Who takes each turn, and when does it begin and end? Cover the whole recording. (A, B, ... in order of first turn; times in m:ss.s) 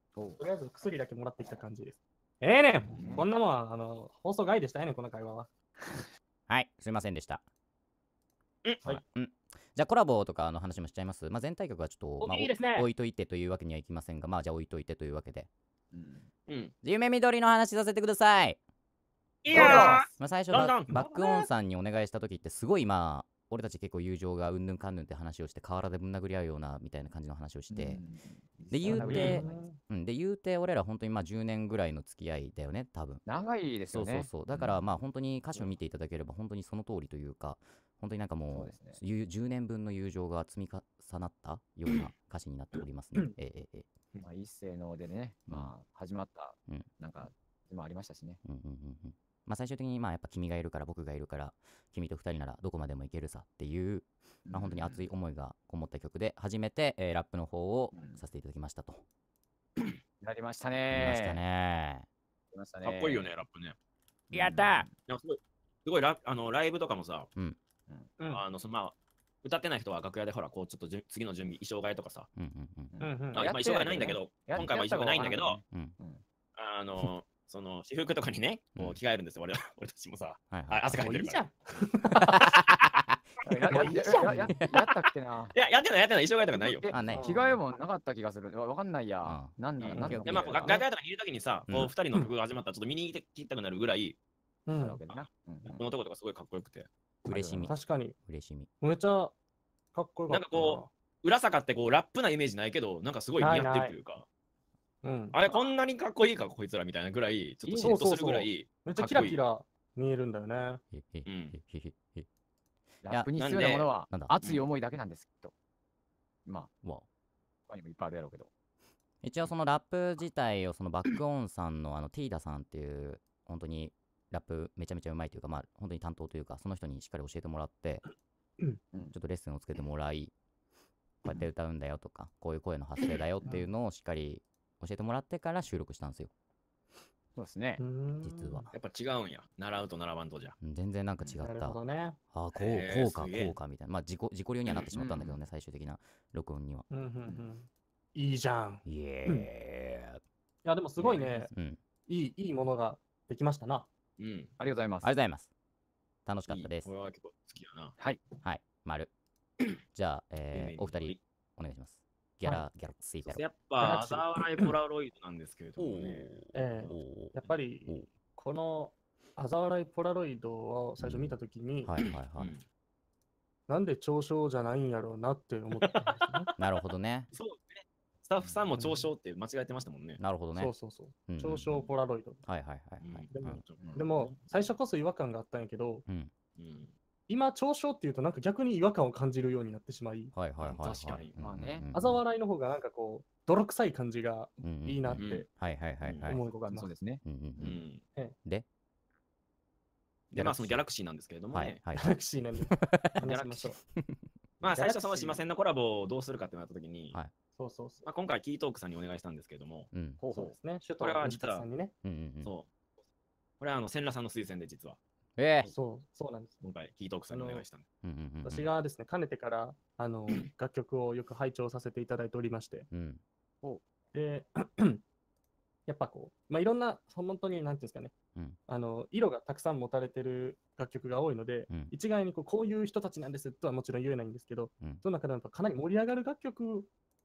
0:00.2-0:00.4 A
0:00.4-0:05.5 B
0:02.9-0:03.3 A
0:06.5-0:07.4 C
0:08.8-0:15.5 C
0:12.2-0:12.9 B
0:15.9-0:16.3 A
0:16.5-0:16.7 D
0:16.8-0:18.6 C
0:19.4-0:21.5 D
0:19.5-0:20.1 A
0:19.5-0:20.1 B
0:20.1-0:28.0 C
0:27.7-0:29.6 A
0:28.7-0:33.2 C
0:28.9-0:29.8 B
0:33.3-0:34.8 A
0:33.9-0:43.9 C
0:38.5-0:39.0 A
0:44.2-0:48.4 A
0:45.5-0:45.7 C
0:48.4-0:59.0 C
0:54.5-0:55.1 A
0:57.9-0:58.2 A
1:00.2-1:01.4 A
1:00.9-1:02.1 C
1:02.5-1:03.3 A
1:02.8-1:03.8 D
1:04.3-1:04.9 C
1:04.3-1:04.9 A
1:05.1-1:07.3 D
1:08.3-1:12.3 D
1:12.4-1:13.0 C
1:12.9-1:16.2 A
1:13.0-1:13.5 B
1:13.3-1:15.6 D
1:16.6-1:21.4 D
1:20.5-1:21.0 C
1:20.9-1:22.4 B
1:22.2-1:23.2 C
1:23.4-1:25.5 A
1:23.7-1:24.5 B
1:25.5-1:26.9 D
1:26.5-1:30.8 A
1:26.9-1:27.6 C
1:27.1-1:27.4 B
1:29.2-1:30.7 C
1:29.8-1:34.2 D
1:34.7-1:35.0 B
1:34.8-1:35.8 A
1:35.1-1:36.9 D
1:37.3-1:38.7 C
1:37.3-1:37.7 A
1:37.6-1:38.2 B
1:38.8-1:39.4 B
1:39.9-1:40.9 B
1:40.3-1:44.3 D
1:43.4-1:44.0 B
1:45.0-1:45.4 B
1:45.3-1:49.4 D
1:47.6-1:48.0 A
1:47.8-1:50.8 B
1:50.9-1:52.3 C
1:51.2-1:51.6 D
1:53.0-1:53.3 C
1:53.0-1:55.5 A
1:53.4-1:53.9 D
1:57.7-1:58.5 A
1:59.2-2:08.0 C
2:09.1-2:10.3 C
2:11.2-2:16.3 C
2:17.4-2:17.8 A
2:17.8-2:18.7 B
2:18.2-2:18.7 C
2:18.7-2:20.6 D
2:20.6-2:21.8 C
2:21.4-2:22.2 B
2:22.3-2:26.9 C
2:22.5-2:23.6 D
2:24.9-2:25.4 A
2:26.9-2:29.5 B
2:28.9-2:30.2 C
2:30.6-2:31.5 B
2:31.5-2:31.8 C
2:32.1-2:33.9 B
2:34.2-2:34.5 D
2:34.6-2:35.1 A
2:35.0-2:35.5 C
2:36.3-2:36.9 C
2:36.5-2:38.0 D
2:38.4-2:39.1 C
2:39.9-2:43.4 C
2:40.5-2:41.2 D
2:43.2-2:46.3 D
2:43.8-2:44.7 B
2:45.8-2:48.1 C
2:46.5-2:51.9 B
2:51.0-2:52.5 C
2:52.0-2:52.6 D
2:53.7-2:56.5 B
2:55.8-2:56.6 D
2:56.6-2:57.3 C
2:57.3-3:00.2 D
2:58.8-2:59.1 B
3:00.2-3:00.7 C
3:00.6-3:02.4 B
3:01.3-3:01.9 C
3:02.4-3:03.6 C
3:03.0-3:04.5 D
3:03.3-3:06.0 B
3:03.8-3:04.1 A
3:06.1-3:06.3 C
3:06.6-3:06.9 D
3:07.3-3:10.3 B
3:10.3-3:12.2 C
3:10.6-3:11.4 D
3:11.3-3:11.9 A
3:11.9-3:15.5 B
3:14.6-3:16.4 C
3:15.2-3:15.5 D
3:16.0-3:16.4 D
3:16.3-3:16.9 B
3:16.6-3:17.8 A
3:17.2-3:17.8 C
3:17.6-3:18.0 D
3:20.3-3:21.8 D
3:20.4-3:20.8 C
3:21.5-3:22.2 C
3:21.9-3:23.8 B
3:22.7-3:23.2 C
3:23.2-3:23.8 D
3:24.0-3:24.2 C
3:24.6-3:27.2 D
3:24.7-3:25.4 B
3:27.6-3:28.1 B
3:28.0-3:29.9 D
3:29.9-3:30.2 C
3:30.2-3:30.6 A
3:30.3-3:31.9 B
3:31.0-3:31.7 D
3:32.0-3:32.6 C
3:33.6-3:35.0 D
3:35.4-3:35.7 C
3:35.7-3:36.6 B
3:36.6-3:37.8 D
3:37.3-3:37.6 B
3:38.0-3:38.7 C
3:38.4-3:42.9 B
3:42.9-3:43.2 C
3:44.1-3:45.0 B
3:45.9-3:48.1 B
3:48.7-3:56.9 B